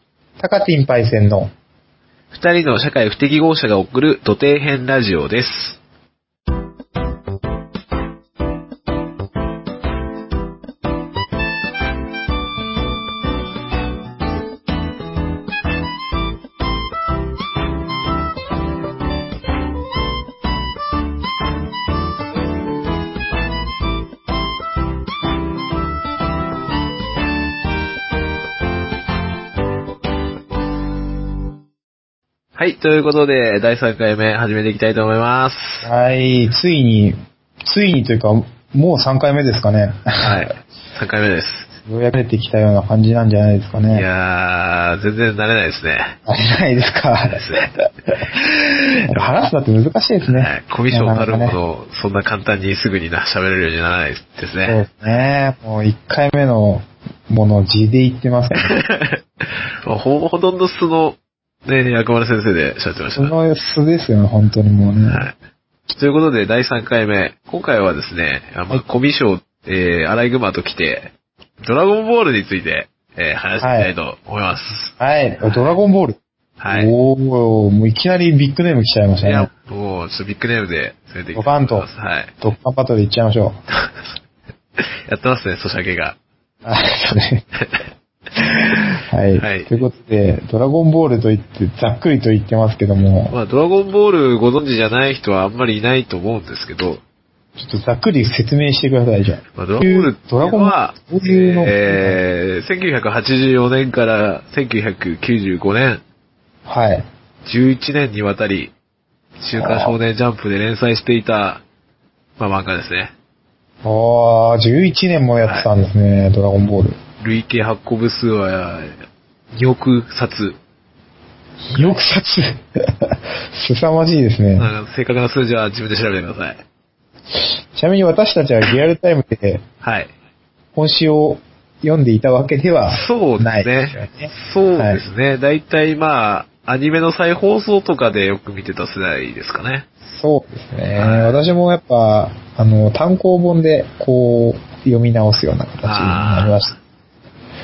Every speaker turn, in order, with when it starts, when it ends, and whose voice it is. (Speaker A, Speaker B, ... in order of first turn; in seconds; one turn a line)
Speaker A: 0.4-1.5
Speaker B: 2.3-5.8
Speaker B: 32.5-35.9
Speaker A: 35.8-40.4
Speaker B: 40.2-41.7
Speaker A: 41.8-44.0
Speaker B: 43.9-46.2
Speaker A: 46.3-51.6
Speaker B: 47.2-47.7
Speaker B: 50.2-54.8
Speaker A: 54.7-58.8
Speaker B: 58.5-63.3
Speaker A: 63.2-65.2
Speaker B: 65.1-65.3
Speaker B: 65.9-71.1
Speaker B: 71.6-74.9
Speaker A: 73.6-73.9
Speaker A: 75.0-79.5
Speaker B: 76.6-76.9
Speaker B: 79.2-82.3
Speaker A: 81.3-81.9
Speaker A: 82.4-83.6
Speaker B: 83.7-84.1
Speaker B: 84.8-86.2
Speaker A: 86.7-87.4
Speaker B: 87.6-87.8
Speaker A: 88.4-93.3
Speaker B: 89.3-89.9
Speaker B: 93.3-97.0
Speaker A: 97.6-102.2
Speaker B: 99.5-106.0
Speaker A: 106.7-107.1
Speaker B: 107.4-108.7
Speaker B: 109.4-111.6
Speaker A: 109.5-110.0
Speaker B: 112.4-113.1
Speaker A: 113.8-117.0
Speaker B: 115.4-115.7
Speaker B: 117.2-119.0
Speaker B: 119.5-120.6
Speaker A: 121.7-124.7
Speaker B: 121.7-122.0
Speaker B: 124.6-126.6
Speaker A: 127.7-129.6
Speaker B: 129.8-130.1
Speaker A: 130.7-135.0
Speaker B: 132.9-139.9
Speaker A: 140.1-146.7
Speaker B: 140.9-141.4
Speaker B: 145.8-146.8